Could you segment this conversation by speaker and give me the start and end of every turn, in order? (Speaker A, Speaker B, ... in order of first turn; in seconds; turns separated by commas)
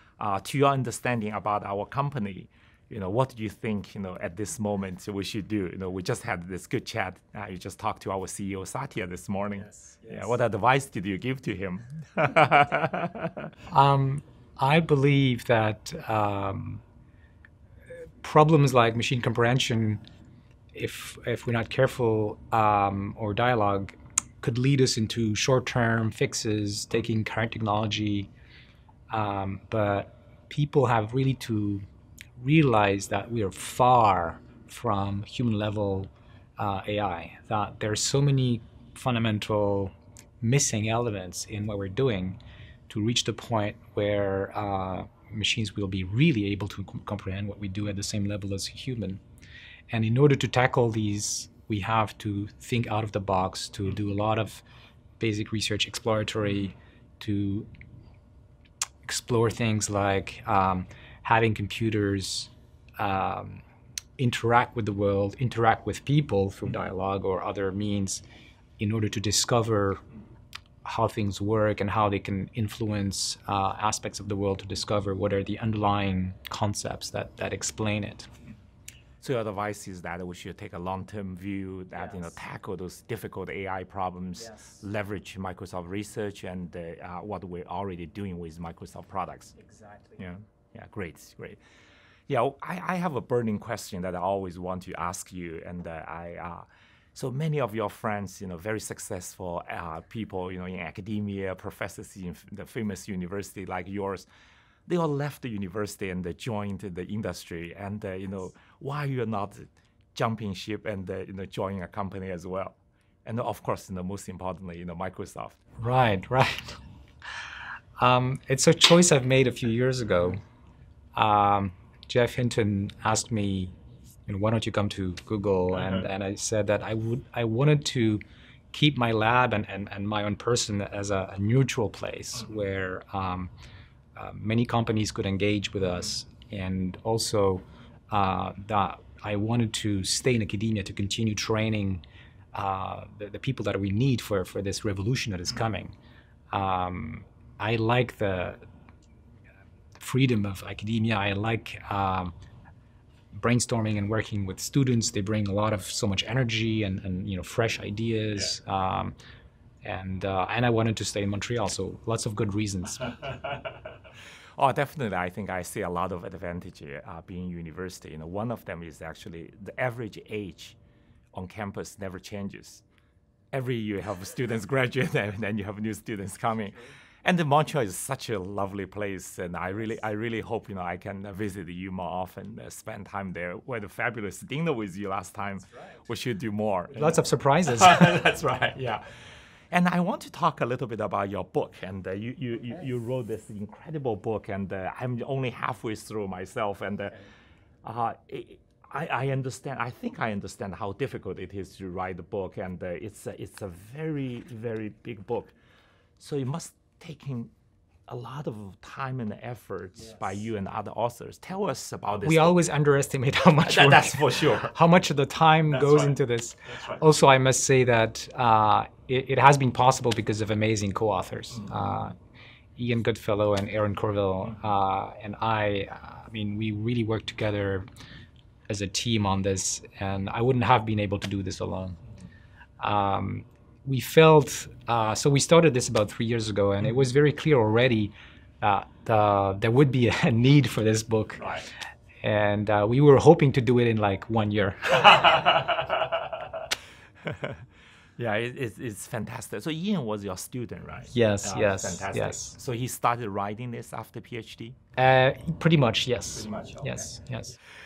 Speaker A: 0.2-13.5, Speaker B: 13.7-16.8, Speaker B: 18.2-20.0, Speaker B: 20.7-28.3, Speaker B: 29.1-31.8, Speaker B: 32.4-42.4, Speaker B: 42.9-49.2, Speaker B: 49.9-54.6, Speaker B: 55.2-57.7, Speaker B: 59.0-63.6, Speaker B: 64.2-68.2, Speaker B: 68.8-70.0, Speaker B: 70.8-78.3, Speaker A: 79.2-89.6, Speaker A: 90.2-91.6, Speaker A: 92.3-104.3, Speaker A: 104.9-115.6, Speaker B: 115.8-116.8, Speaker B: 118.0-120.4, Speaker B: 121.1-123.7, Speaker B: 124.3-133.5, Speaker B: 134.2-142.0, Speaker B: 142.5-145.9, Speaker B: 146.5-148.6, Speaker B: 150.0-152.3, Speaker B: 153.3-159.1, Speaker B: 159.8-163.2, Speaker A: 164.6-170.8, Speaker A: 171.3-172.8, Speaker A: 173.5-189.0, Speaker B: 186.9-188.1, Speaker A: 189.7-197.2, Speaker A: 197.8-205.5, Speaker A: 206.2-207.5, Speaker A: 208.1-212.5, Speaker B: 212.2-222.1, Speaker A: 213.6-214.7, Speaker A: 215.7-216.2, Speaker A: 216.7-217.0, Speaker B: 222.8-227.8, Speaker B: 228.7-232.0, Speaker B: 232.8-241.5, Speaker A: 241.4-241.7, Speaker B: 242.2-245.4, Speaker A: 245.0-246.4, Speaker A: 247.2-247.5, Speaker A: 248.2-254.8, Speaker B: 251.1-252.5, Speaker B: 254.9-257.6, Speaker A: 256.3-257.1